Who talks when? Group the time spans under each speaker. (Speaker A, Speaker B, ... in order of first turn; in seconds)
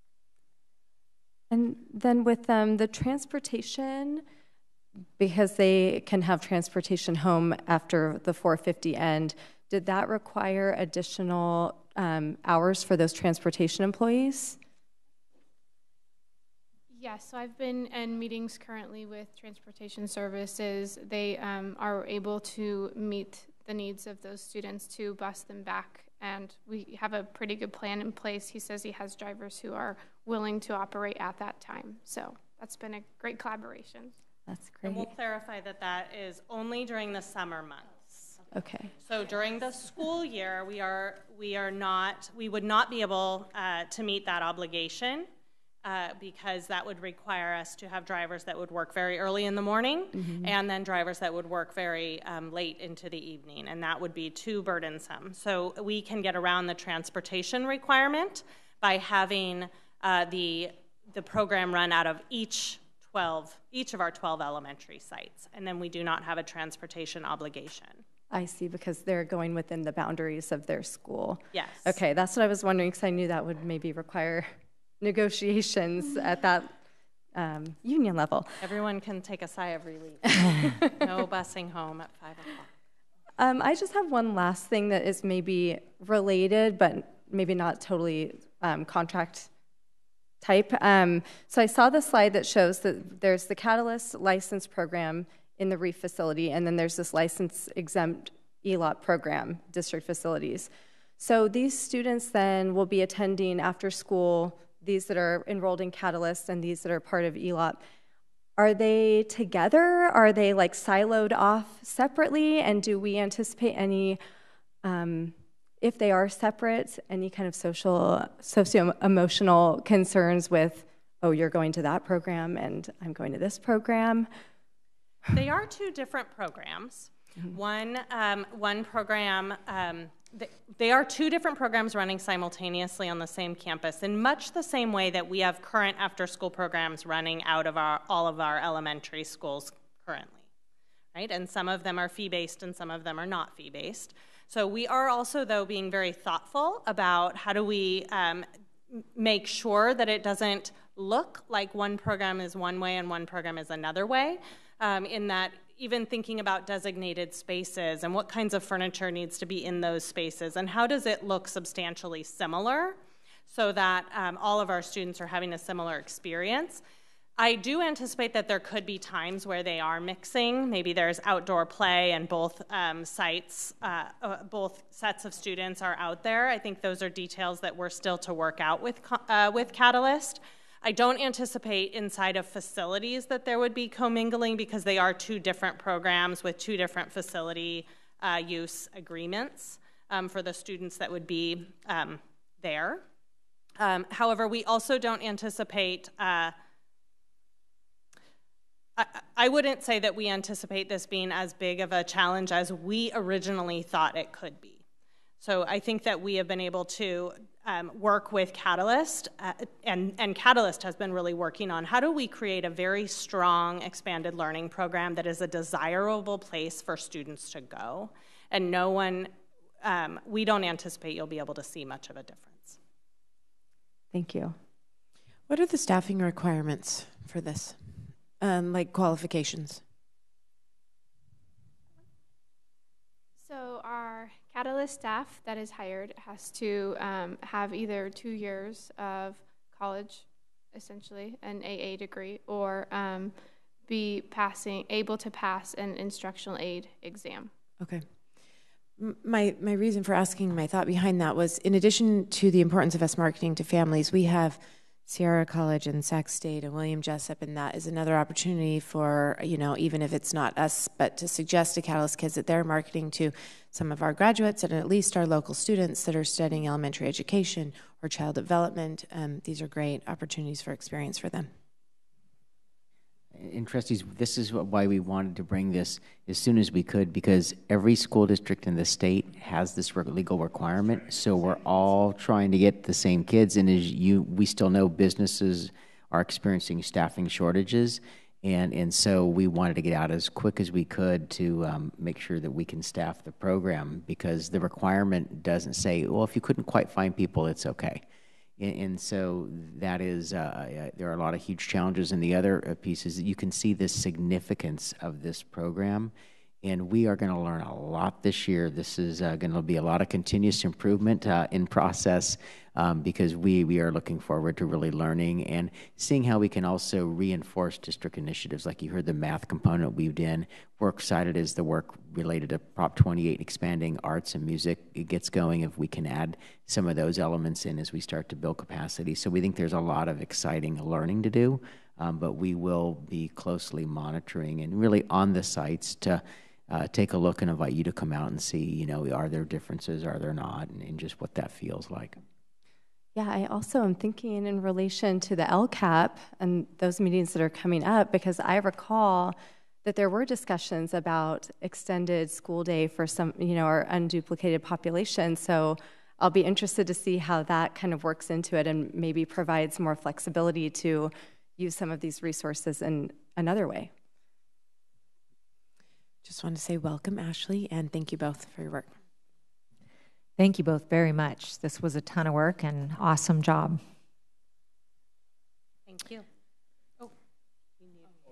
Speaker A: 1.5-4.2, 5.2-14.6, 34.5-35.1, 38.5-38.9, 50.1-50.5, 68.3-76.7, 77.3-78.7, 80.4-80.9, 83.4-89.5, 90.4-107.8, 108.6-114.2, 114.8-124.3, 224.1-224.6, 343.1-363.9
Speaker B: 16.9-34.1, 233.4-247.5
Speaker C: 34.8-38.3, 39.0-45.3, 45.8-68.0, 71.5-72.0, 78.6-82.7, 125.3-140.4, 141.1-166.8, 167.4-193.0, 193.8-196.5, 199.0-204.8, 205.4-219.3, 219.8-222.8, 375.9-376.2
Speaker D: 225.5-229.8, 247.8-271.5, 366.2-368.9
Speaker E: 273.3-298.0, 298.6-342.2
Speaker F: 370.4-373.8